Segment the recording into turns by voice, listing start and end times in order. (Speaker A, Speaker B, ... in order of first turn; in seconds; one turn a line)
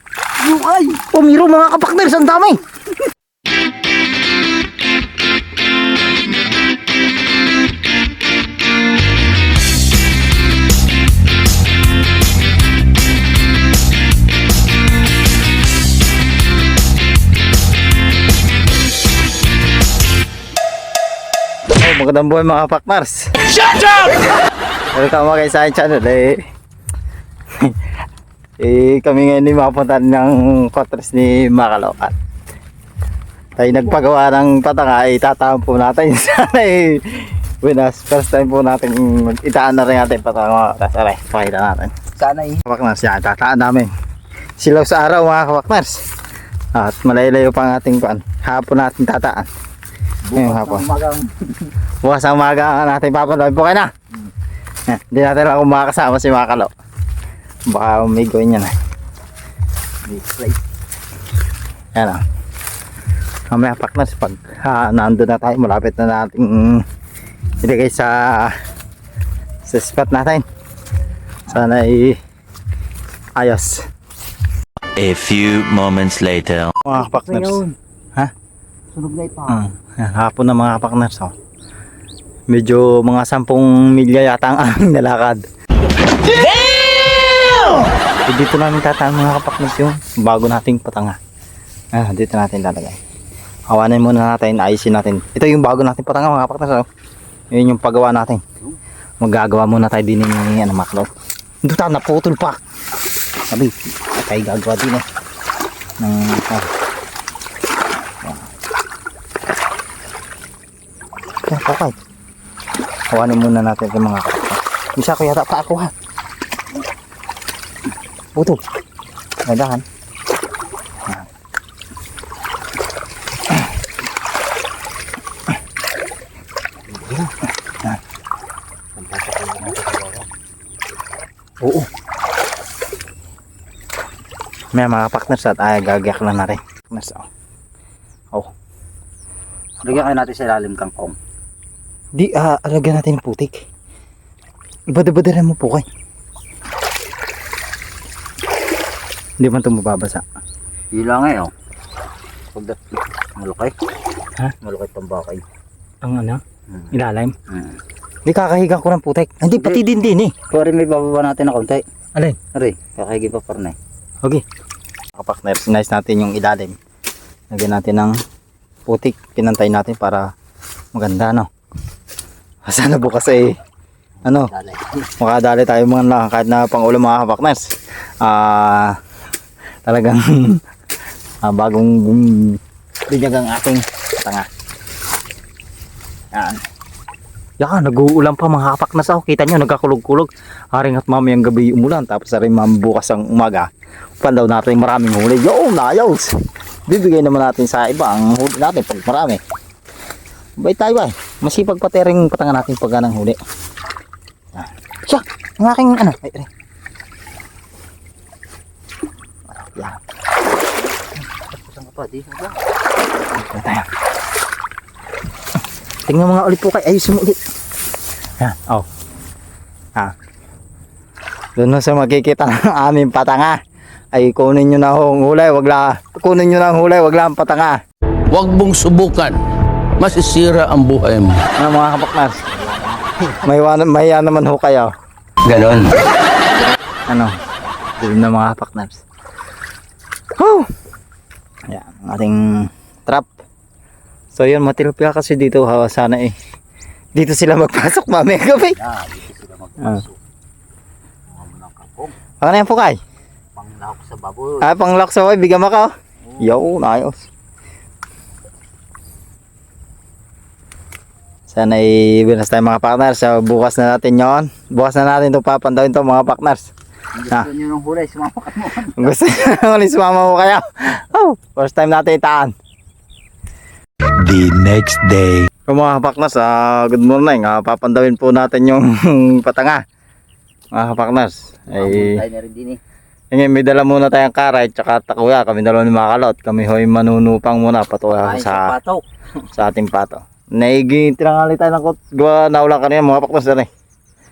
Speaker A: 0.4-1.0
Speaker B: 1.1-2.6
Speaker B: 21.7-23.5
Speaker B: 24.9-26.4
Speaker B: 28.6-32.1
Speaker B: 33.6-41.9
Speaker A: 42.2-42.6
Speaker B: 42.6-43.9
Speaker B: 44.6-46.0
Speaker B: 46.7-49.5
Speaker A: 50.2-51.7
Speaker B: 50.4-50.9
Speaker B: 52.0-53.9
Speaker B: 54.9-56.7
Speaker B: 57.7-58.7
Speaker A: 60.1-60.5
Speaker B: 61.9-62.2
Speaker B: 63.5-66.8
Speaker B: 67.6-68.5
Speaker B: 69.7-70.4
Speaker B: 71.5-72.2
Speaker B: 73.3-73.8
Speaker C: 75.0-76.7
Speaker B: 76.8-77.6
Speaker A: 76.9-77.7
Speaker A: 78.9-79.7
Speaker B: 79.5-81.3
Speaker B: 82.5-85.4
Speaker B: 88.2-91.2
Speaker B: 91.9-93.0
Speaker B: 93.7-96.9
Speaker B: 97.5-98.4
Speaker B: 99.2-101.1
Speaker B: 101.6-102.6
Speaker B: 103.5-105.0
Speaker B: 106.0-106.7
Speaker B: 111.4-111.9
Speaker B: 113.1-115.9
Speaker B: 119.5-119.8
Speaker B: 126.9-128.0
Speaker A: 129.1-130.2
Speaker B: 129.1-129.8
Speaker B: 131.6-131.9
Speaker B: 134.7-137.2
Speaker A: 139.8-141.2
Speaker B: 142.1-143.6
Speaker B: 144.9-145.8
Speaker B: 149.4-150.2
Speaker A: 150.9-151.5
Speaker A: 153.4-153.7
Speaker A: 154.6-155.4
Speaker B: 156.0-157.3
Speaker B: 158.2-160.3
Speaker A: 159.5-159.8
Speaker A: 160.5-161.8
Speaker A: 162.5-163.8
Speaker B: 165.2-166.8
Speaker B: 167.5-168.1
Speaker B: 168.9-170.2
Speaker B: 170.9-171.5
Speaker B: 172.7-173.6
Speaker B: 174.2-174.5
Speaker A: 174.2-175.0
Speaker B: 175.2-177.7
Speaker B: 178.2-179.0
Speaker B: 179.8-180.6
Speaker B: 181.4-184.5
Speaker B: 186.3-186.6
Speaker B: 187.6-193.7
Speaker B: 194.2-196.4
Speaker B: 196.9-199.4
Speaker B: 200.6-203.4
Speaker B: 204.5-206.5
Speaker B: 209.5-210.0
Speaker A: 211.3-212.6
Speaker B: 213.3-213.9
Speaker B: 216.1-217.4
Speaker B: 218.4-218.9
Speaker B: 221.6-223.6
Speaker B: 224.1-227.8
Speaker D: 228.3-229.4
Speaker D: 230.0-231.4
Speaker B: 231.6-232.4
Speaker B: 233.4-234.9
Speaker A: 235.5-235.8
Speaker B: 237.1-237.3
Speaker B: 238.0-239.0
Speaker B: 240.3-240.7
Speaker B: 241.7-243.3
Speaker B: 244.3-246.3
Speaker B: 247.1-248.8
Speaker A: 248.5-250.2
Speaker A: 251.3-252.1
Speaker B: 252.4-253.0
Speaker A: 253.6-254.7
Speaker B: 254.6-257.2
Speaker B: 261.5-266.7
Speaker A: 267.2-269.1
Speaker B: 268.9-272.5
Speaker C: 274.2-275.5
Speaker B: 275.7-279.8
Speaker B: 280.7-282.2
Speaker A: 281.7-282.8
Speaker B: 283.3-288.7
Speaker A: 288.1-289.0
Speaker B: 289.5-293.7